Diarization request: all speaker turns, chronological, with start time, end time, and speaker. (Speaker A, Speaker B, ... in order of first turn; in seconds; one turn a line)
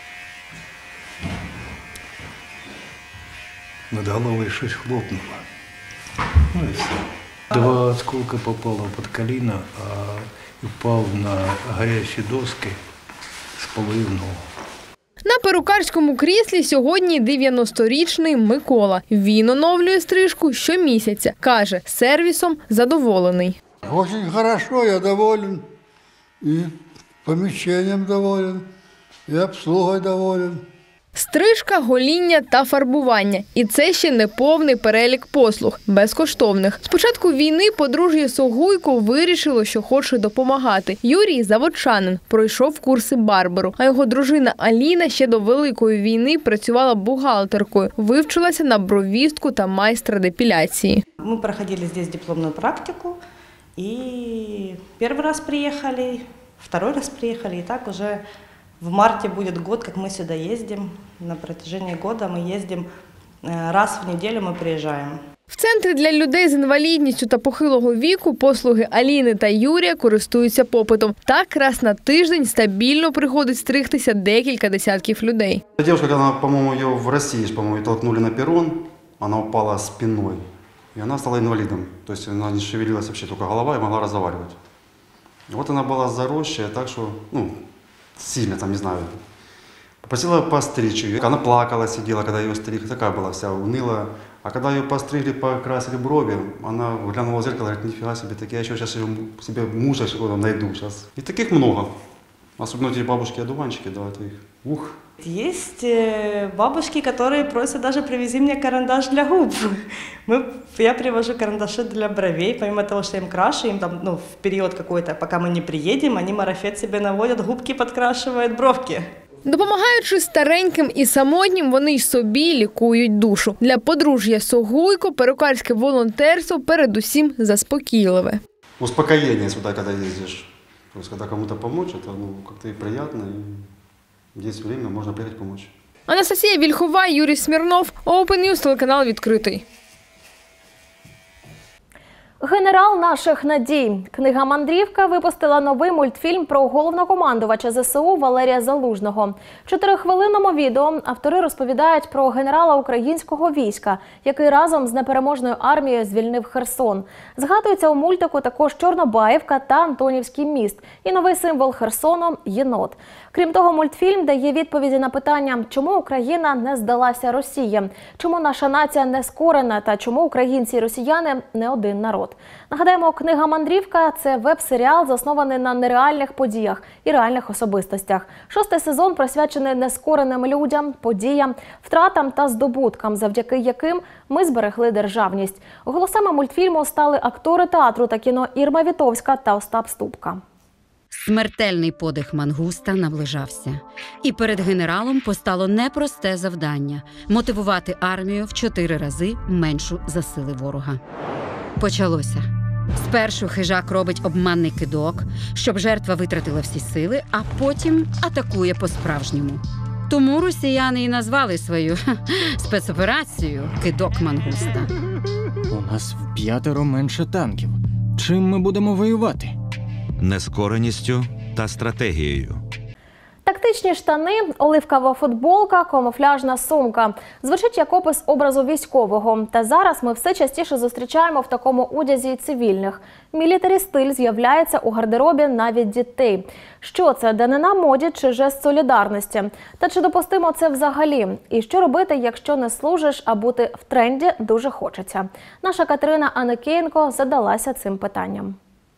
Speaker A: 3.9-5.5
Speaker A: 6.5-12.8
Speaker A: 13.6-14.4
Speaker B: 15.2-23.6
Speaker C: 23.8-25.6
Speaker C: 26.4-26.7
Speaker C: 27.2-28.6
Speaker C: 29.3-30.6
Speaker B: 31.1-51.0
Speaker D: 51.2-53.2
Speaker D: 53.8-58.2
Speaker D: 58.8-62.9
Speaker D: 63.4-65.2
Speaker B: 65.5-75.6
Speaker E: 75.8-84.6
Speaker E: 85.5-87.6
Speaker E: 88.2-89.2
Speaker E: 90.0-101.9
Speaker E: 102.6-104.9
Speaker D: 105.2-119.1
Speaker B: 119.5-128.4
Speaker E: 128.8-133.7
Speaker E: 134.3-135.7
Speaker B: 136.1-139.6
Speaker F: 142.4-190.4
Speaker G: 191.1-201.0
Speaker G: 201.8-214.9
Speaker H: 215.7-219.5
Speaker I: 220.2-222.6
Speaker F: 223.4-248.6